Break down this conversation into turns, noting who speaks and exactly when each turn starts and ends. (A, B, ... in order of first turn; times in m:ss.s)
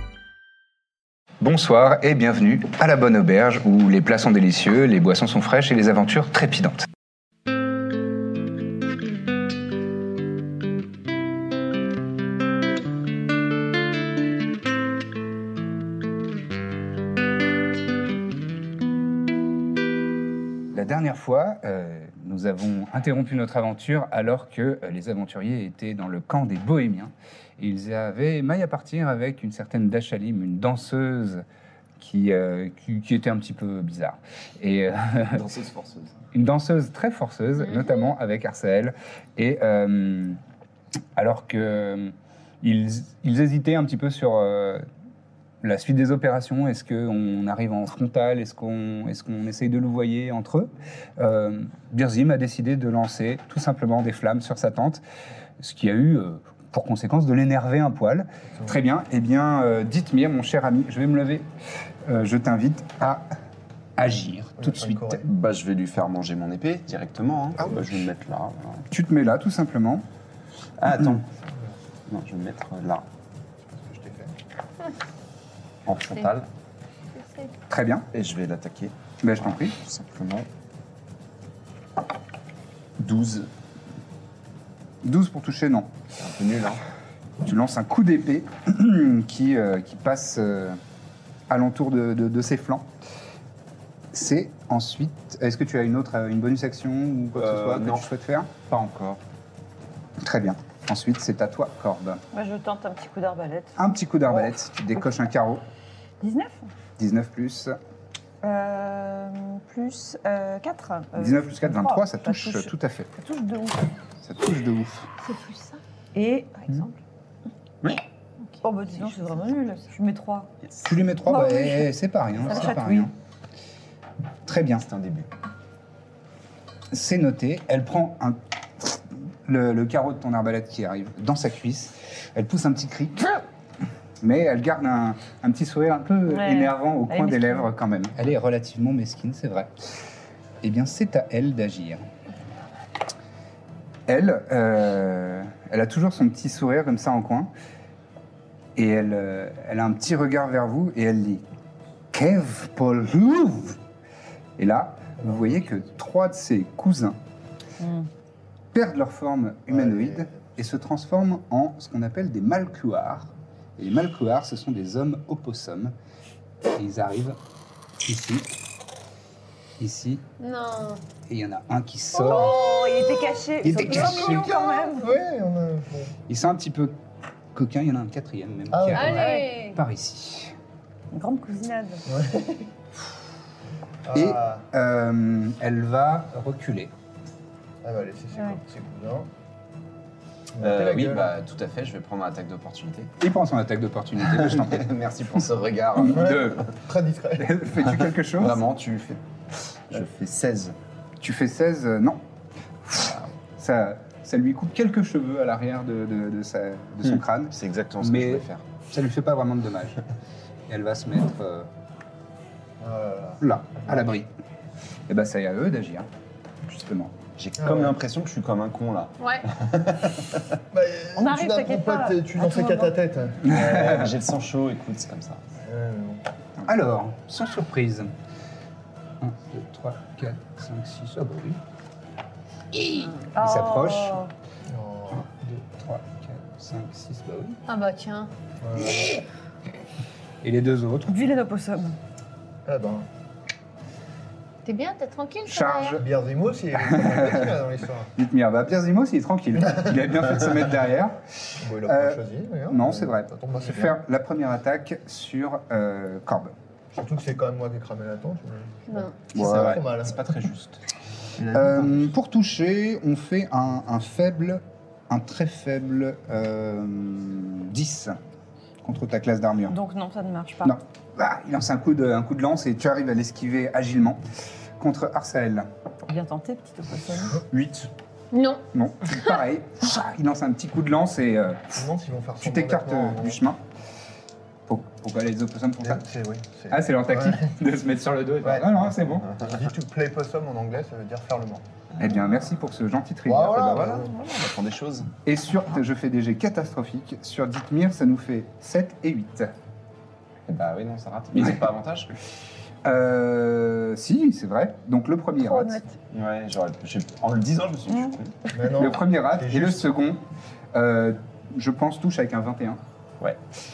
0:01.4-0:06.9 A
0:20.7-0:31.4 A
0:32.0-0:35.5 A
0:35.3-0:36.1 B
0:36.3-0:40.4 A
0:41.2-0:44.8 A
0:45.6-0:55.0 A
0:55.6-1:01.5 A
1:02.0-1:03.3 A
1:04.0-1:05.3 A
1:04.6-1:05.3 C
1:05.3-1:08.9 B
1:07.6-1:08.1 A
1:08.9-1:10.0 A
1:10.8-1:11.2 B
1:10.9-1:11.2 A
1:12.1-1:13.0 B
1:13.7-1:14.4 C
1:15.9-1:16.5 B
1:17.2-1:17.5 D
1:17.7-1:18.1 A
1:18.1-1:18.9 B
1:19.2-1:19.8 A
1:19.8-1:20.5 B
1:23.0-1:23.5 B
1:25.0-1:25.9 A
1:26.2-1:26.8 B
1:27.4-1:30.8 A
1:31.5-1:32.9 A
1:34.1-1:38.5 A
1:37.3-1:38.1 B
1:38.7-1:39.2 B
1:40.2-1:42.2 A
1:42.3-1:43.8 E
1:43.8-1:45.6 A
1:46.2-1:46.7 E
1:47.0-1:47.8 A
1:48.4-1:53.9 E
1:51.2-1:53.1 A
1:54.2-1:55.1 A
1:55.2-1:55.8 D
1:56.2-1:56.9 E
1:58.6-2:00.5 E
2:00.6-2:01.0 B
2:00.8-2:03.1 A
2:01.3-2:01.9 E
2:02.4-2:03.1 E
2:04.5-2:04.9 A
2:04.8-2:05.3 B
2:06.9-2:13.4 A
2:14.2-2:19.7 A
2:16.3-2:17.7 E
2:20.6-2:22.1 A
2:24.1-2:27.5 A
2:28.8-2:31.4 A
2:32.1-2:33.8 A
2:34.6-2:37.2 A
2:35.2-2:35.6 C
2:37.8-2:38.1 E
2:38.7-2:46.0 A
2:39.7-2:40.5 C
2:46.7-2:47.4 A
2:48.0-2:48.5 A
2:49.8-2:50.2 A
2:50.4-2:51.0 D
2:51.3-2:52.6 A
2:52.1-2:55.1 E
2:52.3-2:53.3 D
2:53.6-2:54.5 A
2:53.9-2:56.1 C
2:56.3-2:57.0 A
2:57.5-3:00.6 A
2:58.7-2:59.2 C
2:58.9-2:59.8 D
2:59.1-2:59.7 E
3:01.1-3:02.0 E
3:02.1-3:02.7 C
3:04.0-3:04.6 C
3:04.1-3:06.9 A
3:07.8-3:09.3 C
3:10.6-3:11.3 C
3:10.6-3:13.1 B
3:13.2-3:16.6 A
3:14.3-3:16.7 B
3:16.0-3:17.6 C
3:17.4-3:18.6 A
3:18.1-3:19.2 B
3:19.9-3:20.8 B
3:21.2-3:22.2 A
3:22.8-3:30.0 A
3:23.0-3:23.3 B
3:27.0-3:28.6 B
3:30.7-3:31.7 A
3:32.8-3:34.1 C
3:33.4-3:34.3 A
3:35.1-3:36.1 A
3:36.7-3:37.2 A
3:37.4-3:40.6 B
3:37.6-3:38.0 C
3:39.2-3:39.4 D
3:40.7-3:44.1 C
3:41.2-3:43.0 E
3:43.4-3:44.1 A
3:43.5-3:45.4 B
3:45.6-3:46.2 C
3:46.6-3:48.1 A
3:49.2-3:51.6 A
3:52.7-3:54.2 A
3:53.3-3:54.3 E
3:54.7-3:55.3 C
3:55.3-3:57.6 A
3:57.7-3:58.3 D
3:58.6-3:59.2 C
3:58.8-3:59.2 A
4:00.4-4:01.3 A
4:01.1-4:02.0 E
4:02.7-4:03.1 C
4:04.6-4:06.0 D
4:05.5-4:06.0 A
4:06.0-4:08.1 C
4:06.8-4:16.5 A
4:11.6-4:14.0 C
4:16.9-4:20.4 C
4:18.9-4:19.2 D
4:19.3-4:19.8 A
4:19.3-4:20.8 B
4:21.4-4:22.1 C
4:21.5-4:28.2 A
4:28.8-4:29.8 A
4:29.7-4:30.8 E
4:30.6-4:34.2 A
4:34.8-4:35.7 A
4:36.1-4:37.4 E
4:37.5-4:37.9 A
4:38.3-4:38.6 D
4:38.7-4:41.8 A
4:41.7-4:43.4 C
4:42.4-4:43.6 A
4:44.7-4:46.1 A
4:45.8-4:47.5 C
4:46.7-4:49.3 A
4:48.4-4:48.7 C
4:49.4-4:51.6 C
4:52.0-4:54.0 A
4:53.3-4:54.3 C
4:53.6-4:55.1 B
4:55.2-4:59.5 A
5:00.5-5:02.1 B
5:02.8-5:05.8 A
5:05.4-5:06.0 E
5:06.1-5:08.4 B
5:08.5-5:09.9 C
5:08.7-5:12.8 A